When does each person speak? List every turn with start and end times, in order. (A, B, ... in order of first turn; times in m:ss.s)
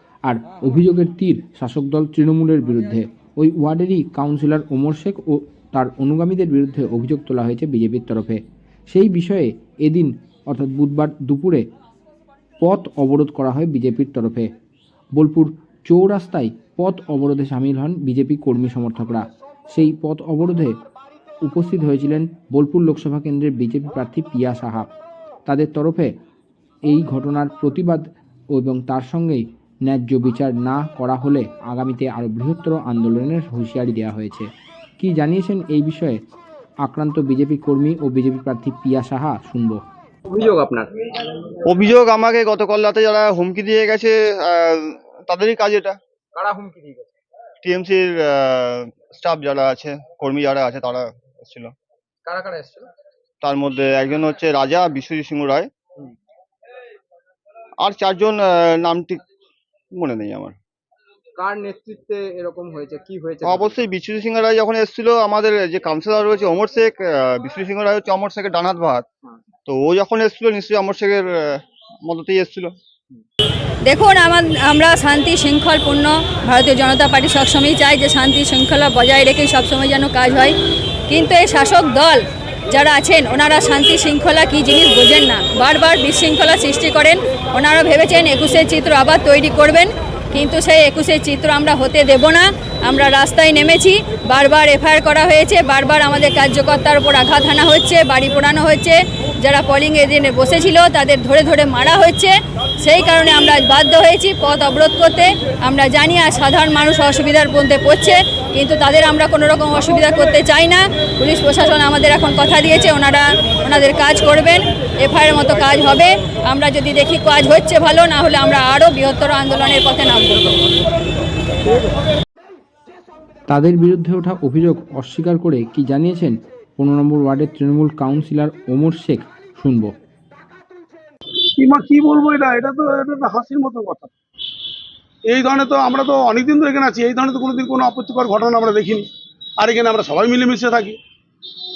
0:00.3-0:11.7 A
0:12.6-0:14.5 A
0:15.2-0:20.8 A
0:21.4-0:24.9 A
0:25.5-0:26.1 A
0:26.9-0:28.0 A
0:28.6-0:34.5 A
0:35.0-0:36.2 A
0:36.8-0:39.8 A
0:40.3-0:41.3 B
0:41.6-0:46.0 C
0:46.4-0:47.2 B
0:47.6-0:51.7 C
0:52.3-0:52.9 B
0:53.4-0:55.7 C
0:57.8-0:59.2 C
1:00.0-1:00.6 C
1:01.4-1:03.8 B
1:03.4-1:09.0 C
1:09.7-1:12.7 C
1:13.8-1:20.6 D
1:21.1-2:00.6 D
2:03.5-2:09.9 A
2:11.6-2:14.1 E
2:15.3-2:19.1 E
2:19.6-2:21.0 E